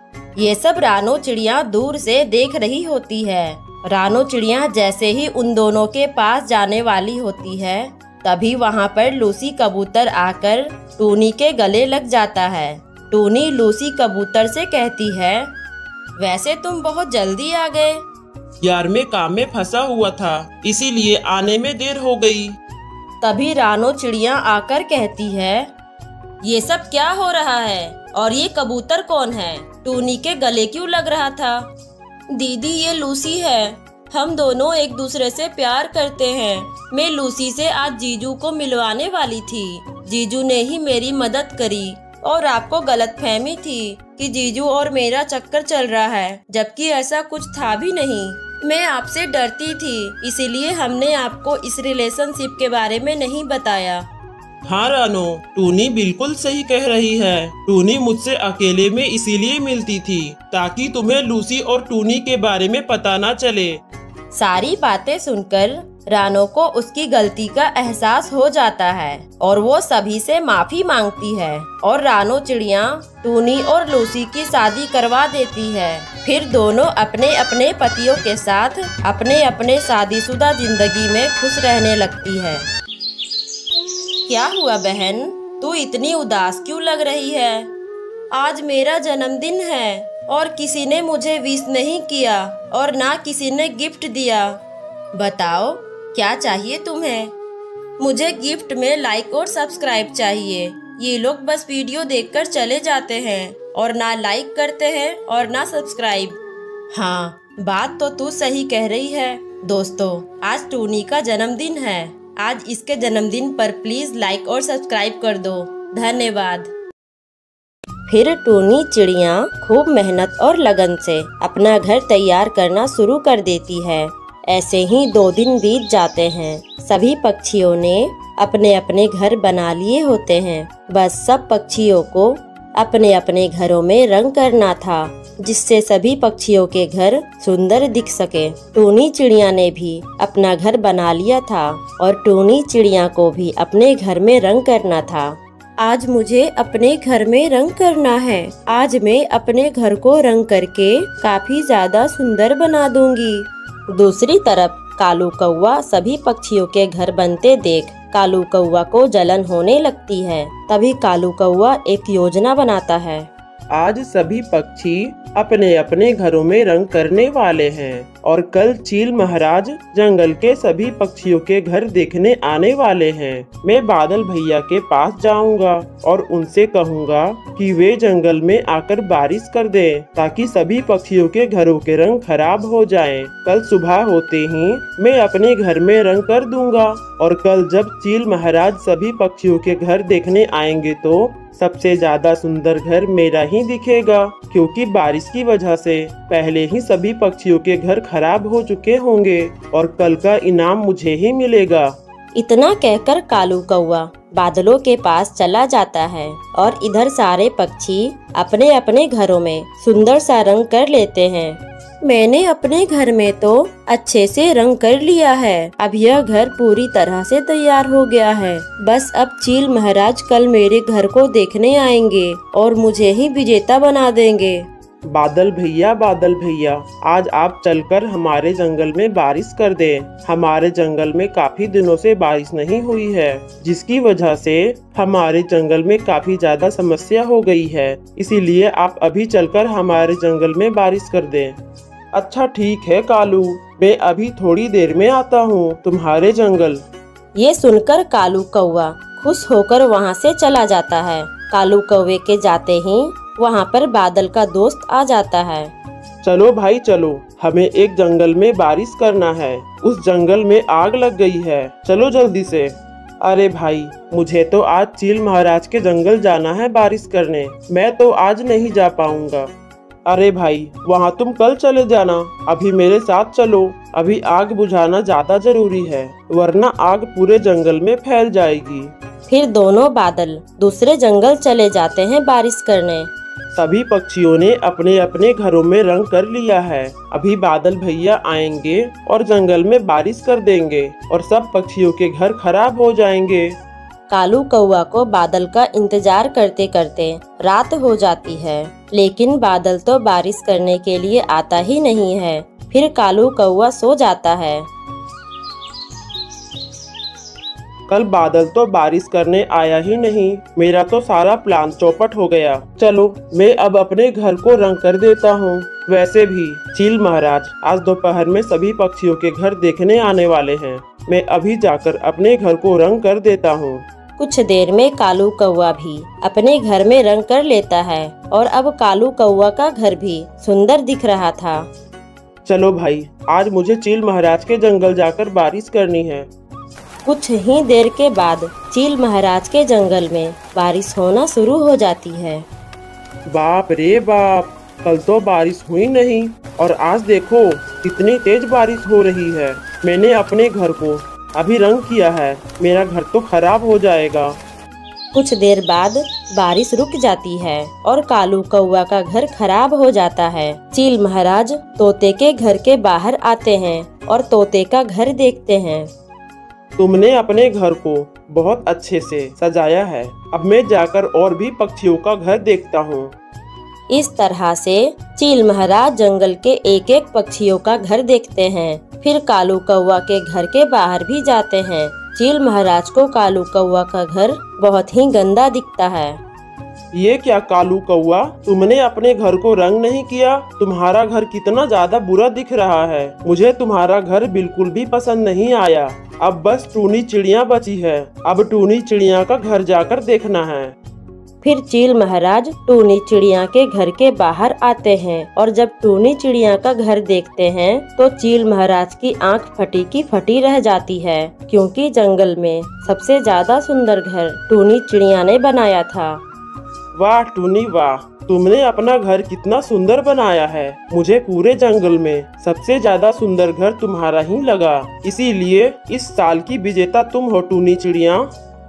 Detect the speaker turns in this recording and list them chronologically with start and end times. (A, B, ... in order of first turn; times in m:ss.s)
0:00.4-0:15.5 A
0:16.2-0:18.0 A
0:18.6-0:22.6 B
0:23.2-0:25.7 A
0:26.4-0:31.7 A
0:32.3-0:54.0 A
0:54.6-1:03.8 B
1:04.3-1:22.7 A
1:24.3-1:27.7 A
1:28.3-1:34.6 A
1:35.1-1:37.3 A
1:38.0-1:46.4 A
1:46.9-1:56.7 A
1:58.1-2:43.3 A
2:43.7-3:21.9 B
3:22.3-3:44.7 A
3:45.1-4:01.6 B
4:02.1-4:06.8 B
4:07.3-4:15.7 A
4:16.2-4:29.5 B
4:30.0-4:38.9 B
4:39.3-4:43.1 A
4:43.5-4:53.6 B
4:54.1-5:04.7 A
5:07.9-5:23.8 B
5:24.2-5:31.7 A
5:32.4-5:36.3 B
5:37.0-5:42.4 A
5:43.3-5:54.4 B
5:55.1-6:05.9 A
6:06.8-6:13.1 B
6:13.9-6:26.2 A
6:26.9-6:40.7 B
6:41.4-6:56.2 A
6:56.9-7:08.3 B